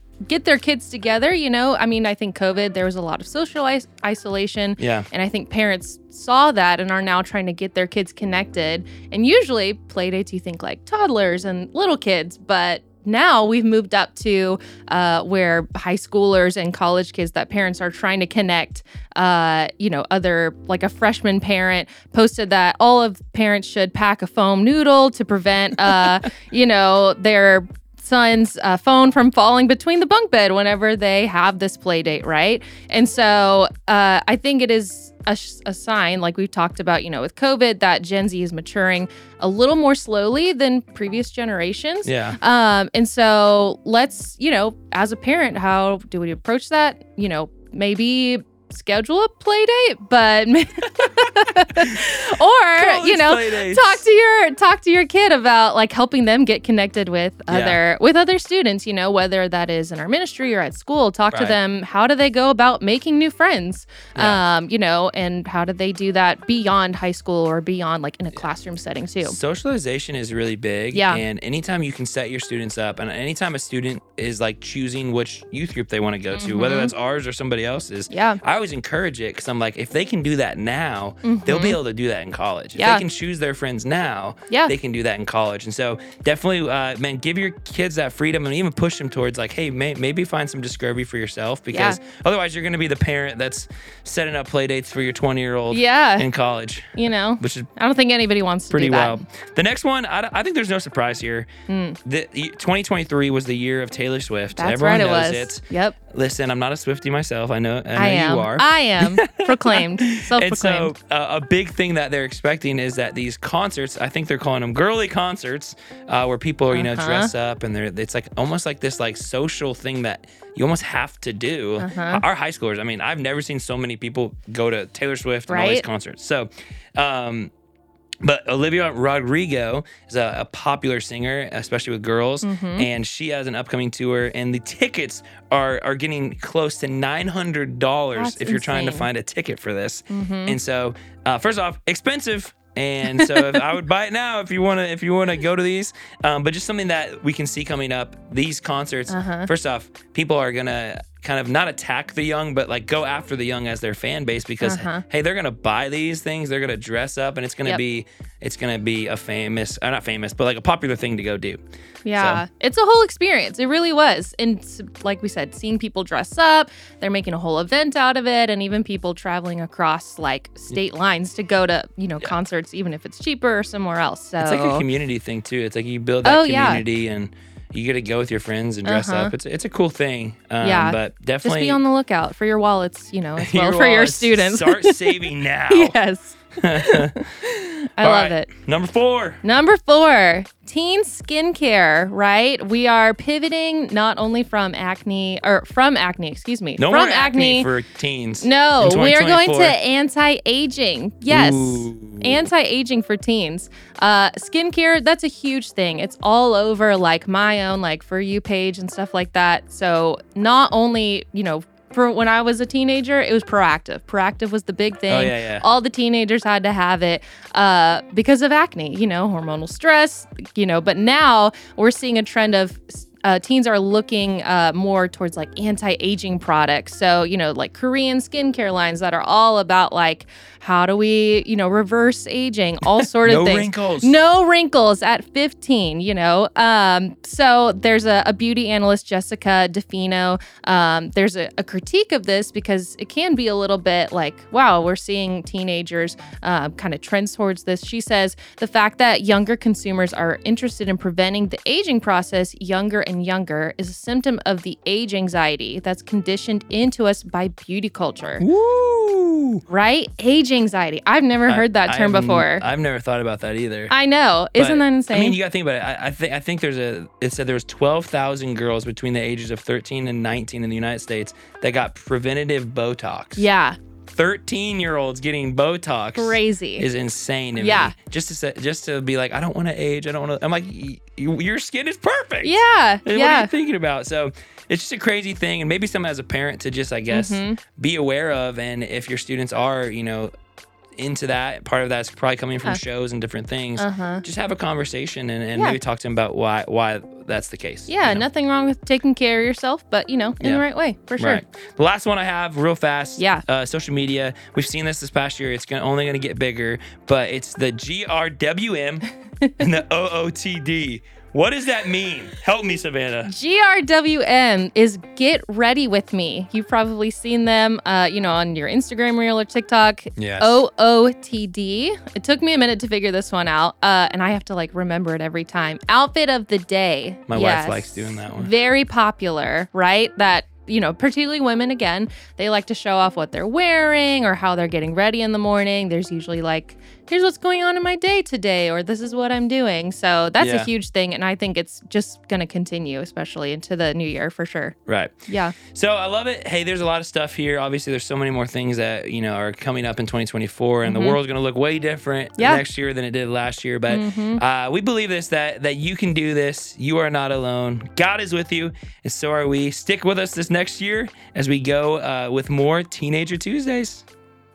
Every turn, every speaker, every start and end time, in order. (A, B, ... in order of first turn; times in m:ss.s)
0:00.3-1:09.4 A
0:04.8-0:05.1 B
0:42.0-0:42.4 B
0:51.0-0:52.2 B
0:52.8-0:54.0 B
0:57.5-0:57.8 B
1:01.3-1:01.6 B
1:04.2-1:04.4 B
1:09.2-1:37.7 B
1:10.9-1:11.2 A
1:16.4-1:16.9 A
1:18.1-1:18.4 A
1:21.2-1:21.8 A
1:22.8-1:23.0 A
1:31.7-1:32.0 A
1:35.7-1:36.3 A
1:37.0-1:39.2 A
1:38.7-1:41.5 B
1:41.7-1:42.0 A
1:42.0-2:07.5 B
1:44.6-1:46.0 A
1:48.0-1:50.9 A
1:56.7-1:57.3 A
2:01.8-2:02.2 A
2:05.5-2:05.8 A
2:08.2-2:41.6 B
2:12.4-2:12.9 A
2:18.2-2:19.1 A
2:20.1-2:20.6 A
2:23.1-2:23.6 A
2:29.1-2:29.5 A
2:34.6-2:35.0 A
2:42.0-2:54.8 A
2:42.2-2:42.4 B
2:54.4-3:01.8 B
2:56.2-2:56.8 A
2:58.8-2:59.3 A
3:00.6-3:07.1 A
3:03.4-3:06.0 B
3:06.6-3:09.4 B
3:08.0-3:08.5 A
3:09.4-3:17.7 A
3:16.8-3:19.8 B
3:18.4-4:18.4 A
3:21.3-3:22.5 B
3:35.1-3:35.6 B
3:53.0-3:54.2 B
4:18.4-4:19.6 B
4:19.7-4:22.6 A
4:21.5-4:23.9 B
4:23.9-4:25.4 A
4:24.6-4:33.5 B
4:33.4-4:33.8 A
4:34.1-4:50.3 B
4:36.2-4:36.9 A
4:37.6-4:37.9 A
4:42.4-4:43.5 A
4:47.1-4:47.6 A
4:51.0-4:58.2 B
4:53.8-4:54.2 A
4:57.9-5:01.4 A
5:01.2-5:09.1 B
5:03.2-5:03.4 A
5:09.6-5:13.3 B
5:13.3-5:44.8 A
5:20.2-5:20.6 B
5:27.3-5:28.5 B
5:40.4-5:40.7 B
5:44.9-5:45.1 B
5:45.3-5:45.6 A
5:45.7-6:04.1 B
5:50.8-5:51.2 A
5:52.4-5:52.6 A
5:53.9-5:54.4 A